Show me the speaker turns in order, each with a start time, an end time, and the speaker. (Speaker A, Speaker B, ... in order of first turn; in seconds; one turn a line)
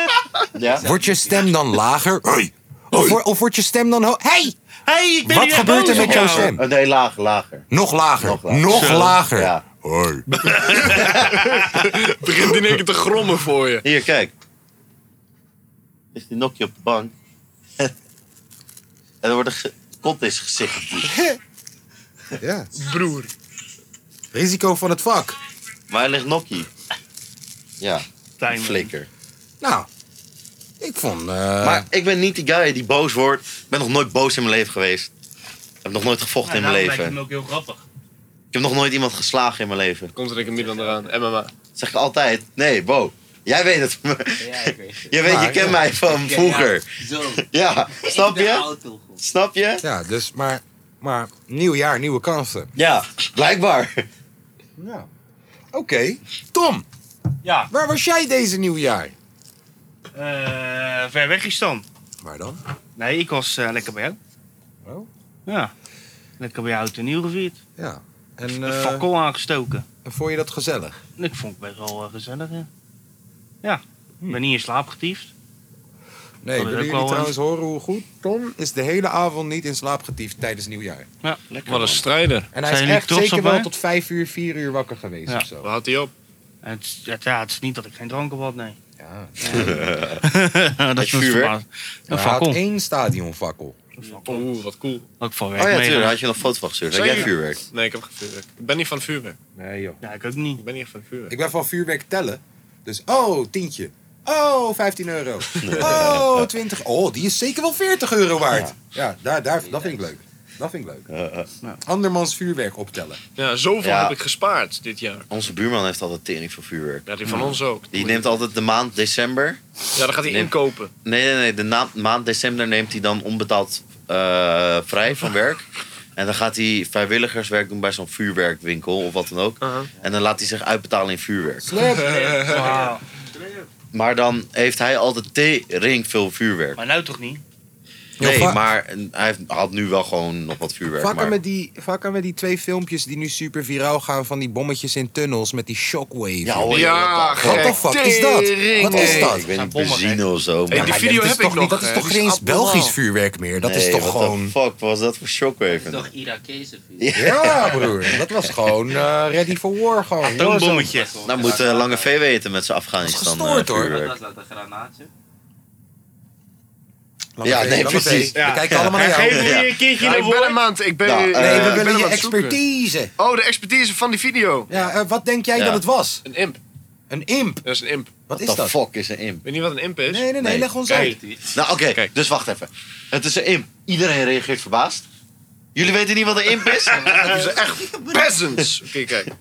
Speaker A: 0.5-0.9
Speaker B: 0.7-1.5
Speaker C: 0.8-4.5
Speaker D: 4.9-6.5
Speaker C: 5.2-6.6
Speaker A: 5.8-7.7
Speaker C: 7.7-10.2
Speaker A: 8.2-9.6
Speaker D: 8.7-9.2
Speaker E: 10.4-13.8
Speaker A: 11.0-11.3
Speaker A: 13.8-14.3
Speaker A: 16.1-17.1
Speaker A: 19.2-21.1
Speaker C: 21.1-21.4
Speaker C: 22.4-22.7
Speaker E: 22.8-23.3
Speaker C: 24.3-25.4
Speaker A: 25.9-26.7
Speaker A: 27.8-29.1
Speaker D: 28.4-28.9
Speaker C: 29.6-29.9
Speaker C: 30.8-31.9
Speaker A: 31.6-35.1
Speaker A: 35.8-37.2
Speaker D: 36.4-37.8
Speaker A: 38.5-40.1
Speaker E: 40.1-41.5
Speaker B: 40.5-41.1
Speaker A: 41.8-49.8
Speaker B: 44.4-49.2
Speaker C: 45.2-45.8
Speaker C: 49.8-52.7
Speaker A: 52.8-54.0
Speaker C: 54.8-55.1
Speaker C: 55.7-56.8
Speaker D: 57.4-57.7
Speaker C: 57.7-59.1
Speaker D: 60.1-61.9
Speaker C: 62.2-62.6
Speaker D: 63.0-64.2
Speaker D: 65.5-65.7
Speaker D: 66.4-67.6
Speaker C: 67.8-69.1
Speaker D: 68.5-69.8
Speaker C: 70.0-71.0
Speaker D: 71.2-72.7
Speaker D: 73.6-75.3
Speaker C: 76.4-81.1
Speaker D: 76.5-77.3
Speaker A: 81.5-82.0
Speaker E: 81.7-82.5
Speaker C: 82.5-85.7
Speaker D: 82.6-83.7
Speaker E: 85.6-86.1
Speaker D: 86.6-88.8
Speaker C: 89.0-89.9
Speaker A: 89.5-90.2
Speaker D: 90.2-92.6
Speaker A: 91.0-91.5
Speaker C: 92.1-93.8
Speaker B: 94.0-94.4
Speaker E: 94.2-95.0
Speaker D: 95.2-96.2
Speaker A: 95.5-97.6
Speaker E: 96.9-99.4
Speaker C: 99.6-100.0
Speaker D: 100.0-100.6
Speaker E: 100.6-101.3
Speaker C: 101.3-111.1
Speaker A: 105.6-106.5
Speaker A: 108.5-108.7
Speaker B: 109.6-110.2
Speaker A: 111.1-111.5
Speaker C: 111.8-113.2
Speaker E: 113.4-115.2
Speaker A: 113.8-114.1
Speaker A: 115.3-119.6
Speaker E: 117.1-117.9
Speaker E: 120.0-120.9
Speaker A: 120.2-120.5
Speaker A: 121.0-131.7
Speaker E: 129.6-129.9
Speaker C: 131.6-132.2
Speaker B: 131.8-133.7
Speaker D: 132.3-133.0
Speaker A: 133.9-136.8
Speaker D: 136.8-137.4
Speaker C: 138.2-138.6
Speaker A: 138.2-141.4
Speaker C: 141.0-149.4
Speaker A: 146.4-147.8
Speaker E: 146.7-149.3
Speaker A: 148.7-151.0
Speaker D: 149.3-150.2
Speaker E: 150.7-152.9
Speaker C: 150.7-154.5
Speaker A: 153.6-156.1
Speaker B: 155.7-157.5
Speaker A: 157.0-158.3
Speaker C: 157.1-160.9
Speaker D: 160.2-161.1
Speaker B: 160.8-162.2
Speaker A: 161.2-164.2
Speaker C: 163.0-163.9
Speaker B: 163.8-165.1
Speaker C: 167.4-169.6
Speaker A: 167.4-169.8
Speaker D: 168.3-170.6
Speaker E: 170.0-172.6
Speaker A: 171.0-171.8
Speaker C: 171.3-173.1
Speaker E: 173.2-174.7
Speaker C: 174.7-176.2
Speaker A: 175.6-175.8
Speaker E: 176.2-176.6
Speaker C: 177.1-177.6
Speaker E: 177.6-178.1
Speaker C: 178.3-178.8
Speaker A: 178.4-179.4
Speaker E: 179.4-180.3
Speaker C: 180.1-181.2
Speaker A: 180.4-185.1
Speaker E: 180.9-181.1
Speaker B: 181.0-181.4
Speaker A: 185.7-187.1
Speaker E: 186.7-189.3
Speaker B: 187.0-188.3